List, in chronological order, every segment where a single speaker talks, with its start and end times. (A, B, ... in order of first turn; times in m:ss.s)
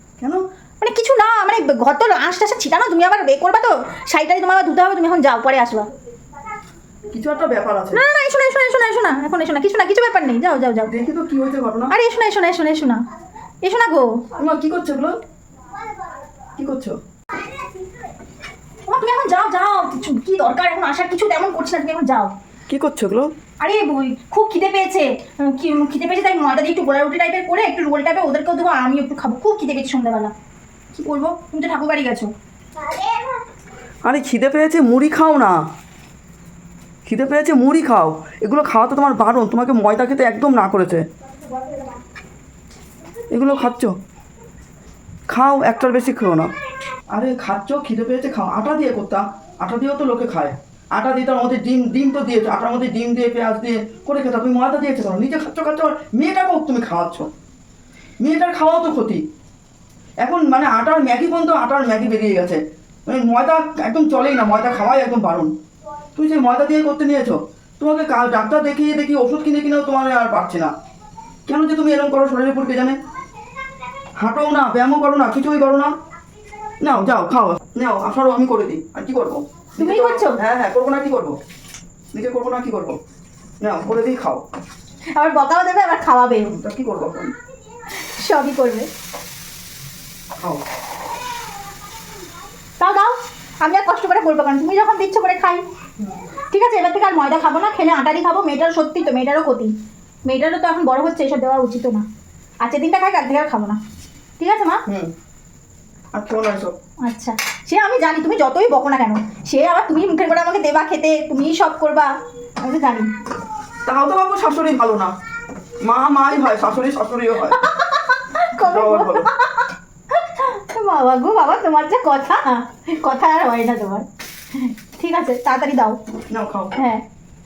0:00.8-0:05.9 A
0:07.1-0:08.0 B
0:07.9-0:10.9 A
0:10.8-0:11.9 B
0:11.9-0:13.0 A
0:13.6-0:14.2 A
0:14.4-0:15.1 B
0:16.6-0:17.0 B
0:18.9-0:22.3 A
0:22.7-0:23.3 B
0:23.6-0:30.3 A
0:30.9-0:32.3 A
0:34.0-0:35.6 B
0:37.0-0:41.0 B
0:43.3-0:44.0 B
0:45.3-0:46.5 B
0:47.1-0:57.3 B
0:58.2-0:59.2 B
1:00.2-1:05.5 B
1:06.2-1:10.7 B
1:11.5-1:13.0 B
1:14.2-1:15.9 B
1:16.8-1:21.4 B
1:19.8-1:20.4 A
1:22.1-1:23.0 B
1:23.6-1:24.4 B
1:25.1-1:26.5 A
1:26.4-1:27.3 B
1:28.0-1:28.9 A
1:32.8-1:35.6 A
1:36.5-1:42.0 A
1:42.6-1:43.8 A
1:44.4-1:44.8 A
1:44.8-1:45.1 B
1:46.1-1:46.7 B
1:47.0-1:53.1 A
1:53.8-1:55.1 B
1:55.8-1:57.6 B
1:57.5-2:06.0 A
1:58.6-1:59.3 B
2:06.3-2:06.8 B
2:06.7-2:07.0 A